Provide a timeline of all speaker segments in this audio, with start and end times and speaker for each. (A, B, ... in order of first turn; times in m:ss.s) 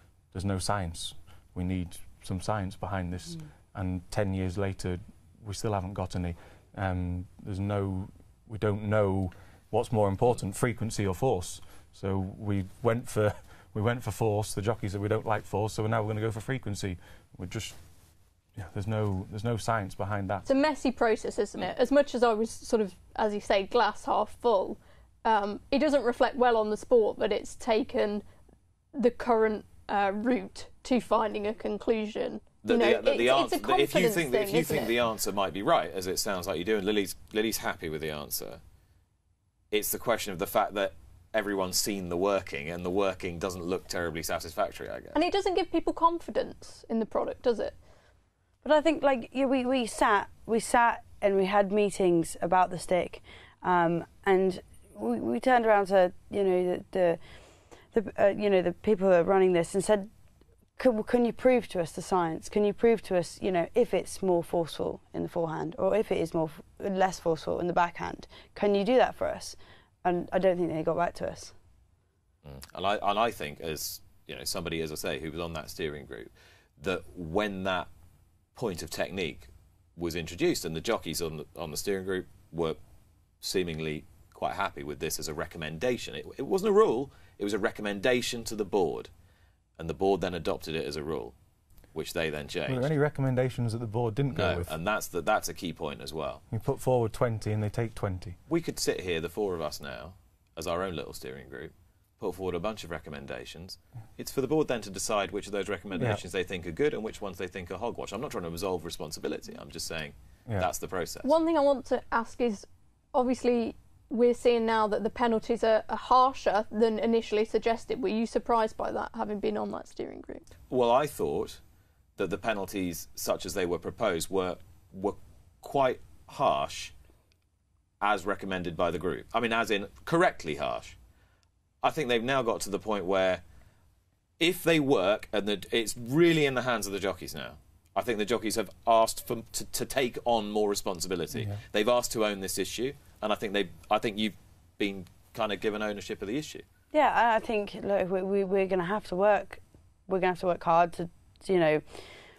0:00.3-0:17.8 A
0:18.6-0:20.5 A
0:20.5-0:28.2 B
0:29.0-0:34.9 B
0:32.6-0:38.6 C
0:39.7-0:45.2 C
0:45.2-0:47.8 B
0:48.6-0:57.2 D
0:57.9-1:00.1 D
1:00.8-1:11.5 D
1:12.4-1:17.9 C
1:18.6-1:22.8 C
1:23.4-1:29.1 C
1:29.8-1:31.4 C
1:31.9-1:32.9 C
1:32.7-1:34.8 A
1:34.3-1:36.4 C
1:36.5-1:38.4 A
1:38.5-1:51.3 C
1:51.2-2:00.5 B
2:00.7-2:01.6 C
2:02.2-2:06.9 C
2:08.0-2:11.0 C
2:11.8-2:13.4 C
2:14.4-2:26.6 C
2:26.9-2:31.8 D